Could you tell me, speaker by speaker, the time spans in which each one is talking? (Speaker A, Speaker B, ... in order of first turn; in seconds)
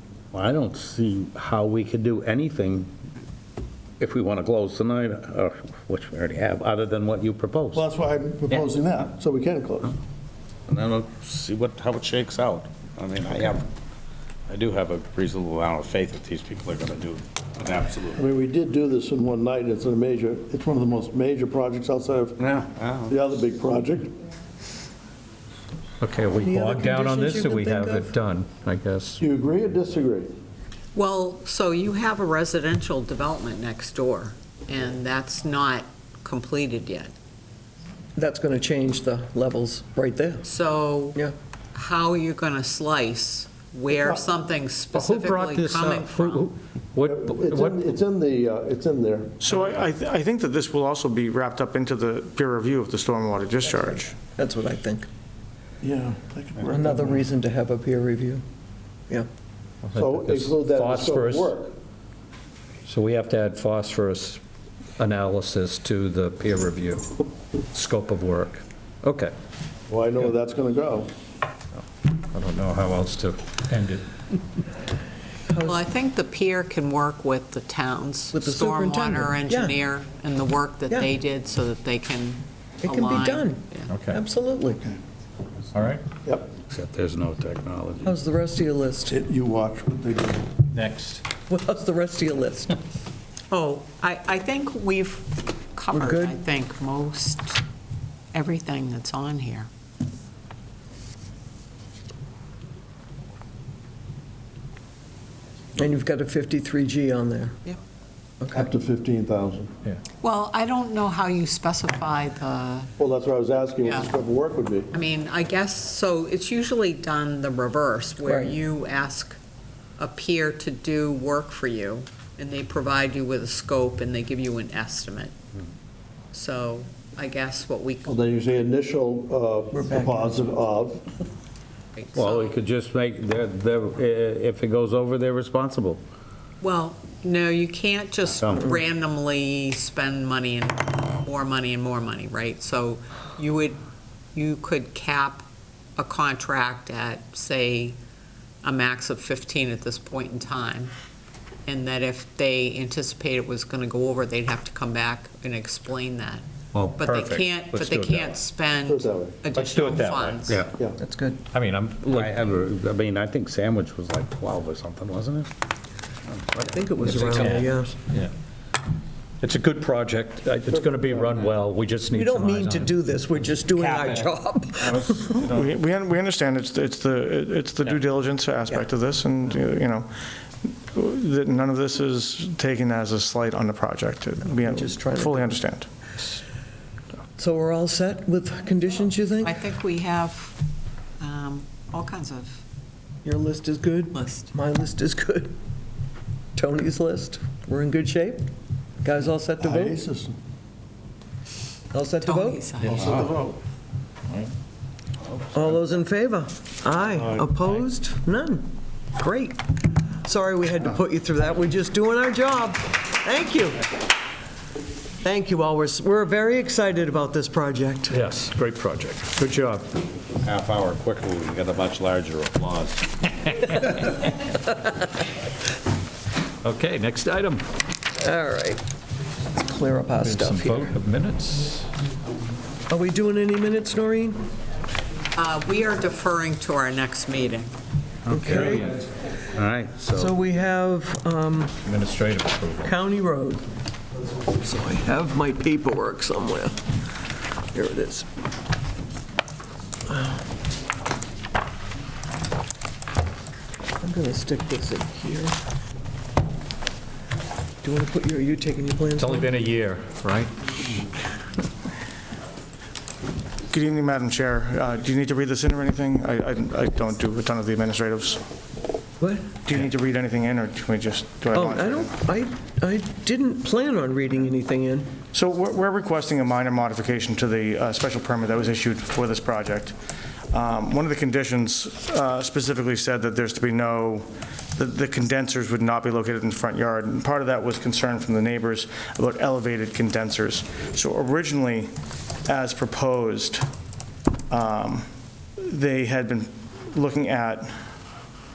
Speaker A: 0.3-2.9, 4.0-7.8, 10.7-13.7, 14.5-18.2, 22.4-23.2, 86.7-88.2, 132.1-136.0, 138.4-138.7, 162.1-165.5, 220.4-223.2, 239.6-240.3
Speaker B: 7.7-10.0, 18.1-22.4, 23.1-24.2, 29.2-30.3, 43.9-44.2, 47.0-49.4, 55.8-57.2, 60.0-61.7, 69.9-71.1, 89.1-90.5, 108.5-109.7, 113.0-114.9, 128.1-131.1, 158.9-159.4, 199.6-200.3, 202.8-203.6
Speaker C: 26.0-29.2, 44.9-47.8, 59.8-61.5, 62.9-64.4, 65.0-67.2, 67.7-69.3, 72.3-74.0, 83.9-84.2, 85.7-86.0, 90.7-91.3, 156.8-158.3, 159.5-160.4, 161.5-162.4, 167.0-168.3, 169.4-173.0, 173.8-175.5, 207.1-207.7, 218.1-219.9, 226.6-227.7, 230.2-231.9, 238.3-239.1, 241.8-243.0, 259.2-260.5
Speaker D: 26.4-28.1, 38.1-40.5, 54.4-55.1, 56.7-58.4, 75.5-75.8, 78.3-79.7, 82.8-84.8, 88.0-89.2, 91.4-92.8, 95.9-96.4, 105.8-107.8, 108.4-108.7, 118.2-118.6, 129.7-130.4, 161.0-161.4, 166.5-167.9, 172.1-175.3, 184.5-185.6, 187.4-189.6, 193.2-195.6, 196.6-198.5, 199.0-200.0, 201.9-202.7, 205.5-213.9, 215.2-218.2, 228.2-228.8, 229.5-230.9, 232.9-234.4, 238.3-238.9, 240.1-241.8, 242.8-243.7, 244.6-246.8, 247.7-248.3, 250.1-250.4, 254.0-255.6, 257.8-259.5, 269.2-269.6, 271.5-275.1
Speaker E: 30.9-37.1, 40.4-41.2, 41.7-46.5, 75.6-83.9, 93.5-97.6, 98.3-99.7, 110.2-112.9, 114.9-119.4, 120.0-125.3, 126.3-128.2, 132.0-132.6, 136.6-143.8, 144.3-145.4, 146.0-148.0, 148.6-150.9, 151.7-156.4, 157.0-160.7, 189.4-190.6, 191.2-192.6, 194.1-194.5, 202.2-203.2, 235.3-237.7
Speaker F: 49.4-54.2, 175.3-185.9, 263.7-268.5, 269.6-272.2, 275.3-280.0, 280.5-291.9, 292.4-293.7, 294.5-295.1, 295.6-297.7